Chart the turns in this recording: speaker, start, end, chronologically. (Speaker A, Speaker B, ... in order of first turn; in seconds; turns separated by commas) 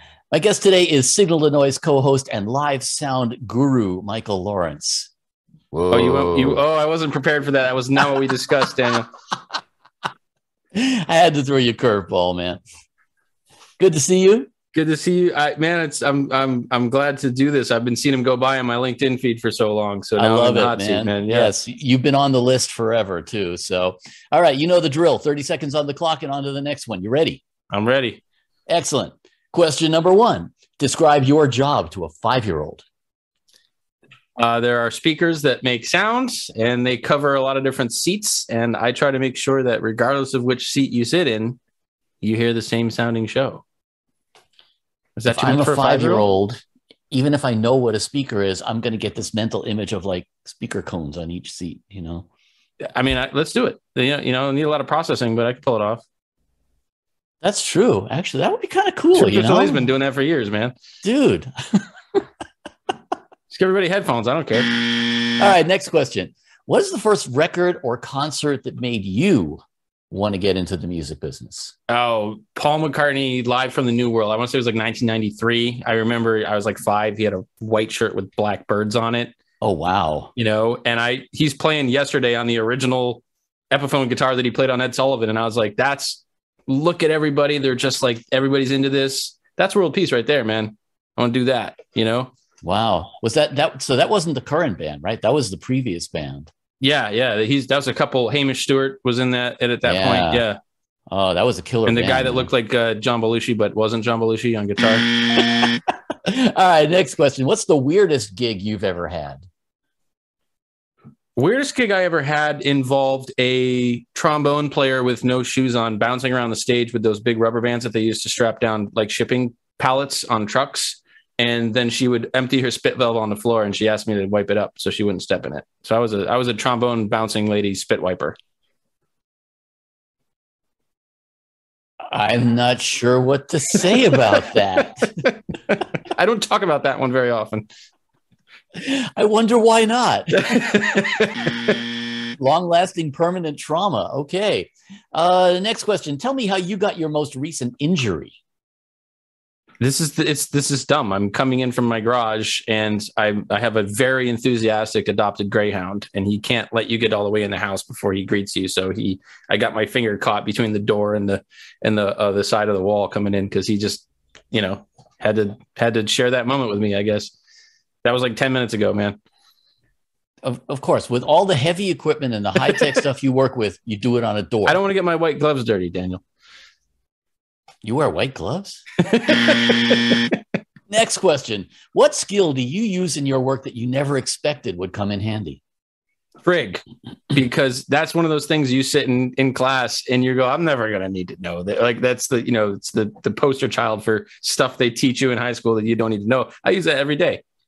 Speaker A: 0.3-5.1, Speaker A: 5.7-6.6, Speaker B: 5.9-9.1, Speaker A: 10.7-12.6, Speaker A: 13.8-14.5, Speaker B: 14.7-21.5, Speaker A: 20.1-27.4, Speaker B: 27.7-28.2, Speaker A: 28.7-32.8, Speaker B: 34.4-41.6, Speaker B: 42.2-43.6, Speaker B: 45.1-46.2, Speaker A: 45.2-46.6, Speaker A: 47.1-52.3, Speaker B: 52.9-56.0, Speaker A: 57.4-59.9, Speaker B: 59.1-60.8, Speaker A: 61.0-61.8, Speaker B: 63.5-64.8, Speaker A: 65.4-71.7, Speaker B: 71.9-79.3, Speaker A: 79.6-80.3, Speaker B: 80.3-92.3, Speaker A: 92.6-96.5, Speaker B: 96.8-100.6, Speaker A: 99.8-100.5, Speaker A: 101.1-102.5, Speaker B: 101.8-105.2, Speaker A: 105.5-109.5, Speaker B: 111.3-128.4, Speaker A: 132.1-135.0, Speaker B: 135.7-137.7, Speaker A: 138.8-140.8, Speaker B: 140.3-141.7, Speaker A: 142.4-148.3, Speaker B: 149.8-167.3, Speaker B: 168.0-169.2, Speaker A: 170.4-174.8, Speaker B: 174.7-176.2, Speaker A: 177.8-178.8, Speaker B: 179.0-180.3, Speaker A: 180.9-185.6, Speaker B: 186.4-197.4